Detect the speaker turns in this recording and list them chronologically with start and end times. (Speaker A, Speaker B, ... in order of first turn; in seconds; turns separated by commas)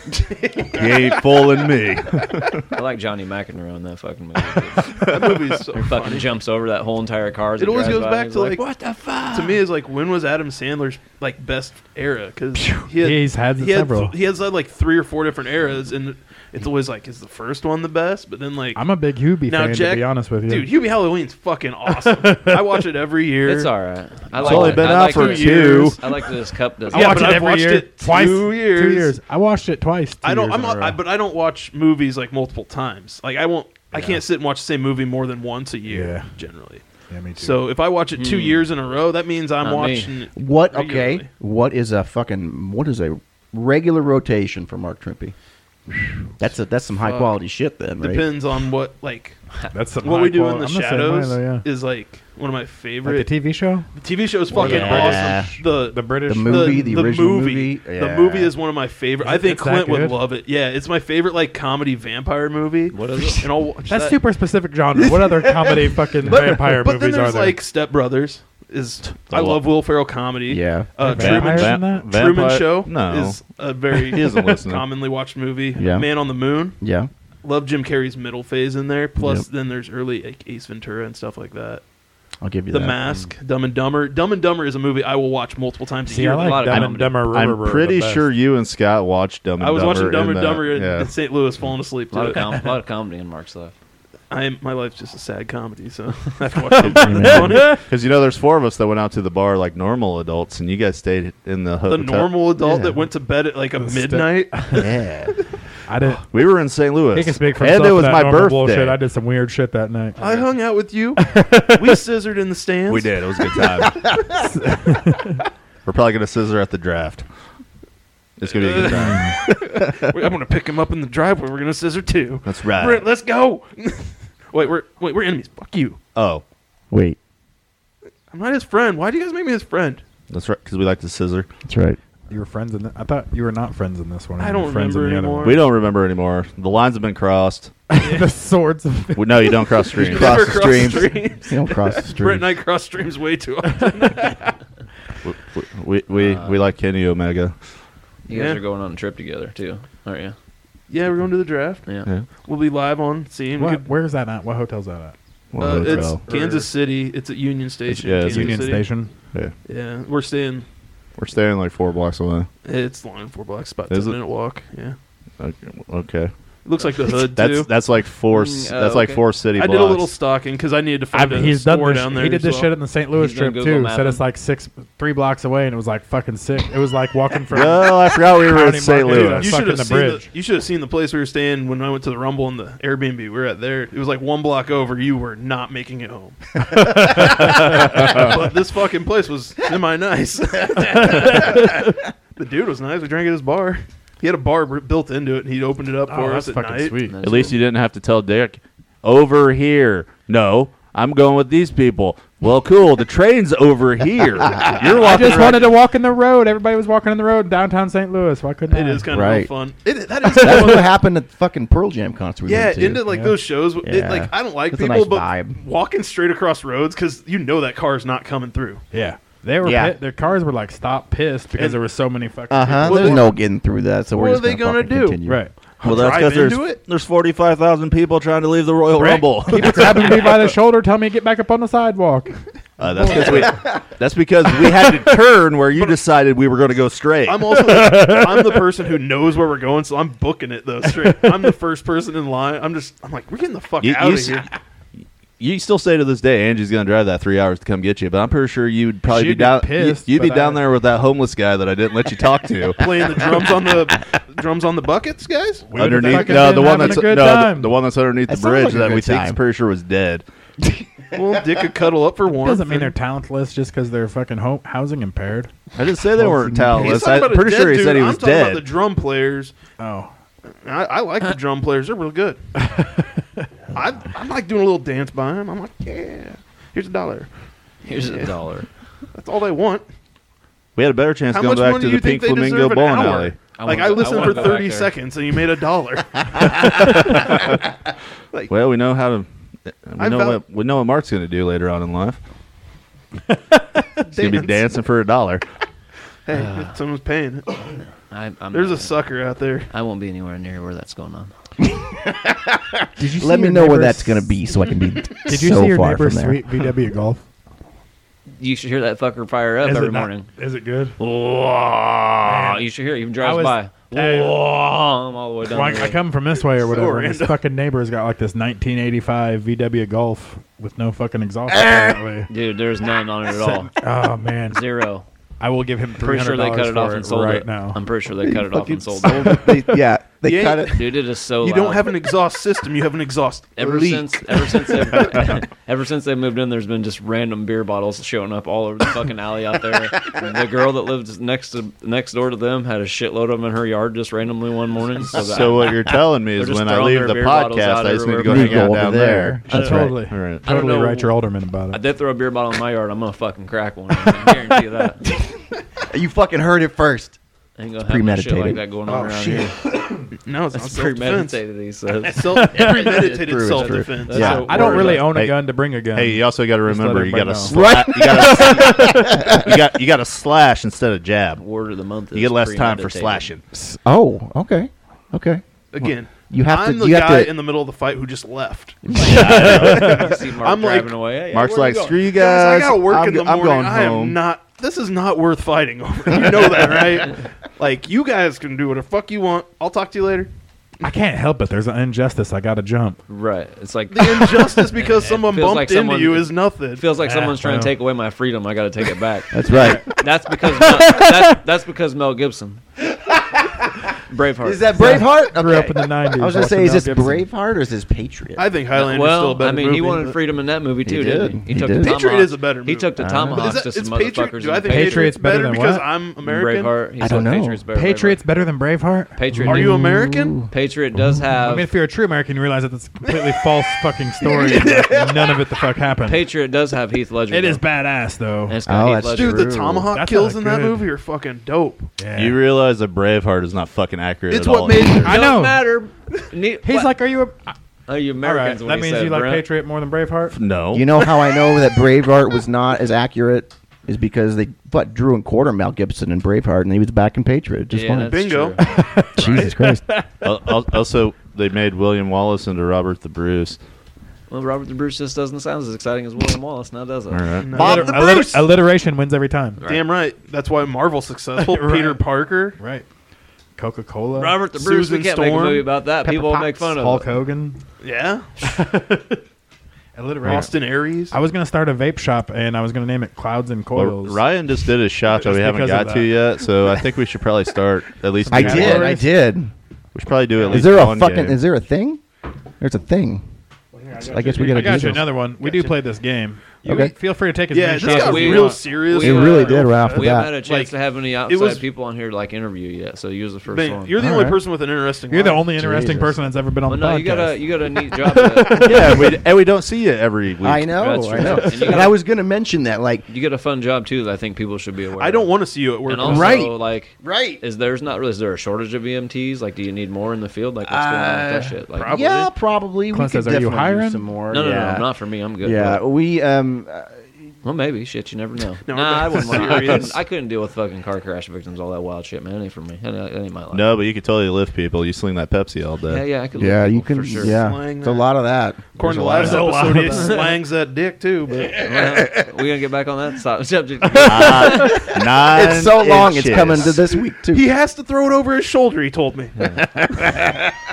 Speaker A: 0.1-1.4, Speaker B: 0.7-2.6, Speaker C: 2.7-5.0, Speaker B: 5.0-5.3, Speaker A: 5.0-6.3, Speaker C: 5.7-9.6, Speaker A: 7.6-8.6, Speaker A: 9.3-18.8, Speaker D: 12.8-14.1, Speaker D: 18.8-20.7, Speaker A: 19.5-23.7, Speaker D: 21.9-22.8, Speaker C: 23.4-27.4, Speaker A: 24.3-26.3, Speaker B: 24.4-26.0, Speaker A: 26.9-29.1, Speaker D: 26.9-31.0, Speaker A: 30.2-36.8, Speaker D: 35.9-36.3, Speaker D: 37.1-37.6, Speaker A: 37.4-41.3, Speaker C: 38.1-38.6, Speaker C: 39.6-40.1, Speaker E: 40.4-45.3, Speaker E: 45.9-48.2, Speaker A: 48.0-49.4, Speaker D: 49.7-51.6, Speaker A: 50.0-53.3, Speaker D: 53.0-53.9, Speaker A: 53.9-64.2, Speaker D: 54.5-57.1, Speaker E: 54.5-55.5, Speaker E: 56.3-58.5, Speaker D: 59.2-60.2, Speaker C: 62.9-63.5, Speaker D: 63.9-67.6, Speaker A: 65.2-76.8, Speaker B: 69.0-69.7, Speaker E: 70.5-70.9, Speaker D: 71.0-72.1, Speaker B: 71.1-74.8, Speaker E: 75.8-76.1, Speaker E: 76.8-77.1, Speaker A: 77.4-81.8, Speaker E: 79.2-79.4, Speaker E: 82.4-83.0, Speaker A: 82.7-86.6, Speaker D: 86.0-88.2, Speaker C: 86.3-87.2, Speaker B: 86.6-91.1, Speaker A: 89.6-92.6, Speaker C: 92.1-93.7, Speaker A: 94.3-97.8, Speaker D: 96.8-97.8, Speaker B: 97.0-102.5, Speaker E: 97.1-97.5, Speaker A: 101.8-104.9, Speaker E: 102.6-103.0, Speaker D: 103.8-104.9, Speaker B: 104.8-105.3, Speaker D: 105.9-106.2, Speaker B: 106.3-109.0, Speaker D: 107.1-110.2, Speaker C: 110.2-110.5, Speaker A: 110.2-113.2, Speaker D: 111.2-112.0, Speaker B: 112.9-114.1, Speaker E: 113.8-114.4, Speaker D: 114.4-115.4, Speaker B: 115.8-117.3, Speaker B: 118.4-120.1, Speaker A: 118.4-126.0, Speaker D: 119.0-119.3, Speaker B: 122.4-123.1, Speaker B: 126.1-126.4, Speaker E: 126.9-127.2, Speaker A: 128.3-130.0, Speaker B: 130.3-131.5, Speaker E: 131.7-132.0, Speaker D: 132.3-135.6, Speaker A: 134.4-135.6, Speaker B: 135.4-137.7, Speaker D: 137.9-139.9, Speaker A: 138.0-138.3, Speaker B: 139.2-140.9, Speaker A: 139.9-144.5, Speaker E: 140.0-142.4, Speaker B: 145.2-147.5, Speaker C: 146.1-146.6, Speaker C: 148.2-150.3, Speaker A: 148.3-148.6, Speaker A: 150.9-153.8, Speaker D: 153.6-156.7, Speaker B: 155.5-156.3, Speaker A: 155.6-158.9, Speaker B: 157.9-158.8, Speaker D: 158.2-159.1, Speaker A: 159.7-160.7, Speaker B: 161.2-162.5, Speaker A: 162.6-164.9, Speaker B: 163.9-164.2, Speaker B: 165.4-170.1, Speaker A: 166.6-167.7, Speaker C: 168.3-169.2, Speaker A: 169.5-172.7, Speaker D: 171.1-180.3, Speaker C: 173.1-174.2, Speaker B: 177.5-179.7, Speaker A: 179.4-197.0, Speaker D: 187.2-187.5, Speaker B: 187.9-188.3, Speaker D: 196.1-197.2, Speaker C: 197.1-197.6, Speaker B: 197.2-205.7, Speaker D: 205.0-209.1, Speaker A: 208.7-210.9, Speaker E: 209.1-209.5, Speaker E: 210.3-213.0, Speaker A: 212.4-218.8, Speaker D: 213.1-213.4, Speaker E: 213.8-215.6, Speaker D: 218.9-223.2, Speaker E: 219.6-219.9, Speaker A: 221.5-221.8, Speaker E: 222.5-226.2, Speaker A: 222.8-223.3, Speaker A: 224.1-225.2, Speaker D: 225.2-225.5, Speaker A: 225.8-226.8, Speaker B: 225.8-230.4, Speaker D: 228.9-233.5, Speaker B: 232.8-237.8, Speaker E: 233.3-233.7, Speaker A: 235.7-236.0, Speaker A: 237.2-244.5, Speaker D: 237.9-238.6, Speaker B: 243.8-244.5, Speaker B: 245.4-253.3, Speaker D: 249.1-250.6, Speaker A: 252.7-256.9, Speaker D: 255.7-257.7, Speaker B: 255.7-260.2, Speaker E: 258.3-259.4, Speaker E: 260.6-261.4, Speaker A: 261.1-262.9, Speaker D: 262.4-265.5, Speaker B: 265.8-268.6, Speaker E: 266.2-266.6, Speaker A: 266.7-269.5, Speaker D: 269.8-270.1, Speaker A: 270.6-272.4, Speaker A: 273.7-277.3, Speaker C: 277.8-278.7, Speaker A: 278.1-278.4, Speaker A: 279.1-279.9, Speaker B: 280.7-283.4, Speaker A: 281.3-287.6, Speaker C: 283.5-284.9, Speaker B: 286.6-287.5, Speaker B: 288.5-289.3, Speaker B: 289.8-292.2, Speaker A: 290.0-290.4, Speaker A: 294.0-294.7, Speaker B: 294.1-295.4, Speaker A: 296.2-297.5, Speaker C: 296.3-296.7, Speaker C: 298.1-299.0, Speaker A: 298.5-299.7, Speaker C: 299.7-301.3, Speaker E: 301.6-306.4, Speaker D: 303.0-304.3, Speaker D: 305.3-307.2, Speaker C: 308.4-310.3, Speaker D: 309.6-310.9, Speaker C: 311.0-316.0, Speaker D: 312.2-312.6, Speaker D: 313.2-314.4, Speaker D: 315.4-322.3, Speaker A: 316.6-317.4, Speaker C: 322.3-323.7, Speaker D: 323.7-324.6, Speaker C: 324.5-325.0, Speaker D: 325.4-327.8, Speaker C: 326.0-329.5, Speaker E: 328.2-330.8, Speaker A: 330.2-335.3, Speaker C: 330.7-332.0, Speaker C: 333.6-348.7, Speaker B: 345.1-350.4, Speaker E: 348.2-350.0, Speaker D: 349.1-351.8, Speaker C: 349.6-349.9, Speaker C: 350.4-351.1, Speaker C: 351.7-355.0, Speaker E: 355.1-357.2, Speaker C: 357.6-359.6, Speaker E: 357.8-358.6, Speaker A: 358.9-361.4, Speaker C: 360.5-362.9, Speaker A: 362.1-365.0, Speaker E: 362.5-364.8, Speaker C: 363.4-365.1, Speaker D: 364.2-367.6, Speaker B: 365.0-365.4, Speaker B: 365.9-371.4, Speaker E: 367.4-369.6, Speaker C: 371.4-373.3, Speaker B: 372.1-373.4, Speaker E: 373.5-375.4, Speaker A: 375.7-381.0, Speaker E: 376.3-377.3, Speaker E: 378.9-379.4, Speaker B: 379.0-380.1, Speaker C: 379.2-382.0, Speaker B: 381.3-384.2, Speaker A: 382.1-390.3, Speaker E: 383.0-383.3, Speaker D: 390.8-393.0, Speaker C: 393.1-402.6, Speaker A: 393.9-396.9, Speaker D: 397.0-397.7, Speaker E: 399.3-399.9, Speaker D: 399.5-399.8, Speaker D: 400.8-401.1, Speaker C: 404.1-405.1, Speaker E: 404.4-408.4, Speaker D: 404.8-407.2, Speaker A: 408.4-410.2, Speaker C: 408.7-415.1, Speaker E: 410.8-411.9, Speaker A: 411.8-416.7, Speaker E: 413.0-413.6, Speaker D: 414.6-415.9, Speaker C: 416.2-418.2, Speaker E: 417.0-417.6, Speaker D: 417.7-419.8, Speaker C: 419.2-419.8, Speaker E: 419.4-420.5, Speaker A: 419.5-420.4, Speaker C: 420.5-421.7, Speaker D: 421.3-426.2, Speaker A: 423.1-423.4, Speaker A: 424.5-425.1, Speaker E: 424.6-424.9, Speaker C: 426.1-427.6, Speaker D: 427.3-428.6, Speaker C: 428.5-429.6, Speaker E: 428.7-429.9, Speaker A: 429.1-431.9, Speaker D: 429.9-430.9, Speaker D: 432.0-432.4, Speaker B: 432.1-435.2, Speaker A: 434.3-435.2, Speaker D: 435.0-435.6, Speaker C: 435.0-436.9, Speaker D: 436.6-437.5, Speaker C: 437.9-439.4, Speaker D: 438.2-440.4, Speaker B: 440.3-440.9, Speaker E: 440.7-448.1, Speaker C: 447.7-448.6, Speaker A: 448.1-449.5, Speaker D: 448.6-450.0, Speaker E: 449.1-449.8, Speaker B: 450.2-453.6, Speaker C: 454.3-457.3, Speaker B: 457.1-457.7, Speaker A: 457.4-458.4, Speaker D: 457.5-459.6, Speaker E: 457.6-458.1, Speaker C: 459.6-459.9, Speaker A: 459.6-462.6, Speaker D: 461.4-462.9, Speaker D: 463.6-464.4, Speaker C: 464.1-467.1, Speaker A: 464.5-465.7, Speaker E: 466.0-466.7, Speaker D: 466.7-467.6, Speaker A: 467.8-468.3, Speaker D: 468.4-469.2, Speaker D: 469.9-470.5, Speaker A: 470.2-471.1, Speaker D: 471.1-474.3, Speaker B: 473.7-478.9, Speaker D: 475.1-476.2, Speaker D: 478.1-479.1, Speaker E: 478.3-479.5, Speaker B: 479.9-481.4, Speaker A: 480.4-480.7, Speaker E: 480.5-482.0, Speaker E: 482.6-483.2, Speaker A: 483.7-485.8, Speaker E: 484.0-485.1, Speaker D: 484.3-488.6, Speaker E: 486.6-486.9, Speaker A: 487.5-490.8, Speaker C: 487.8-493.9, Speaker E: 489.0-490.3, Speaker A: 491.3-491.6, Speaker A: 493.5-495.6, Speaker E: 494.0-494.4, Speaker D: 494.0-494.3, Speaker D: 495.1-497.4, Speaker E: 495.6-496.2, Speaker C: 496.7-499.1, Speaker A: 498.5-498.8, Speaker B: 498.6-500.7, Speaker E: 500.4-503.1, Speaker C: 500.7-502.0, Speaker C: 503.1-512.0, Speaker A: 505.0-506.5, Speaker D: 506.0-506.4, Speaker E: 507.0-507.4, Speaker E: 510.6-514.9, Speaker A: 511.7-512.3, Speaker D: 512.9-514.0, Speaker C: 514.3-515.8, Speaker E: 515.4-517.1, Speaker C: 517.4-523.7, Speaker A: 518.7-520.0, Speaker B: 523.5-526.0, Speaker C: 525.9-527.4, Speaker E: 526.3-529.8, Speaker A: 527.2-528.1, Speaker A: 528.8-531.7, Speaker D: 529.1-530.1, Speaker C: 529.7-530.4, Speaker C: 531.5-534.9, Speaker B: 534.0-536.8, Speaker E: 534.3-537.4, Speaker A: 537.3-540.2